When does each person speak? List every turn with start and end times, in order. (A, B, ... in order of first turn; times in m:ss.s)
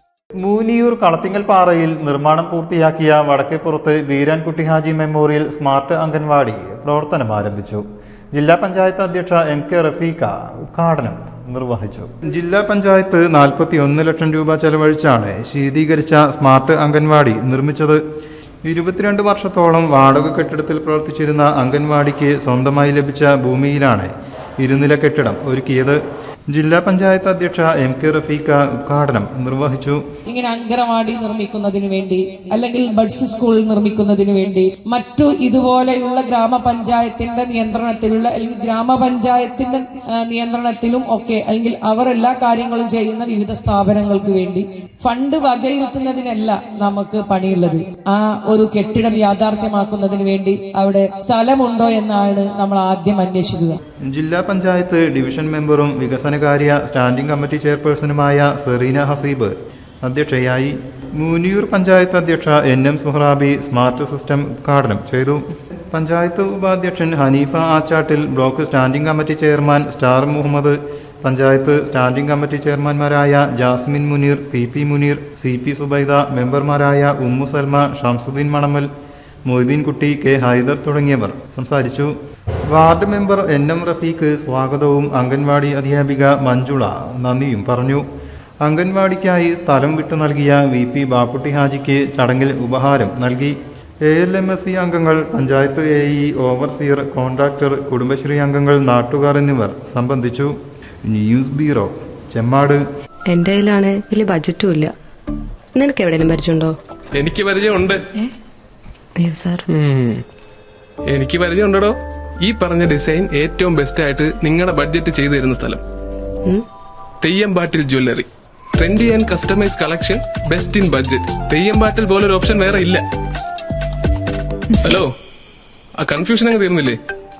0:00.4-0:18.0 A
0:18.6-0:30.0 A
0:30.3-0:53.8 B
0:54.0-1:18.9 A
1:19.5-1:22.2 A
1:22.7-1:28.1 A
1:28.6-1:42.8 A
1:43.3-1:44.9 C
1:45.8-1:46.8 C
1:47.2-1:48.0 D
1:49.2-1:49.6 C
1:49.7-1:50.2 D
1:51.1-1:55.8 D
1:57.2-1:58.3 D
1:58.8-2:03.0 D
2:04.8-2:05.1 D
2:06.0-2:07.0 D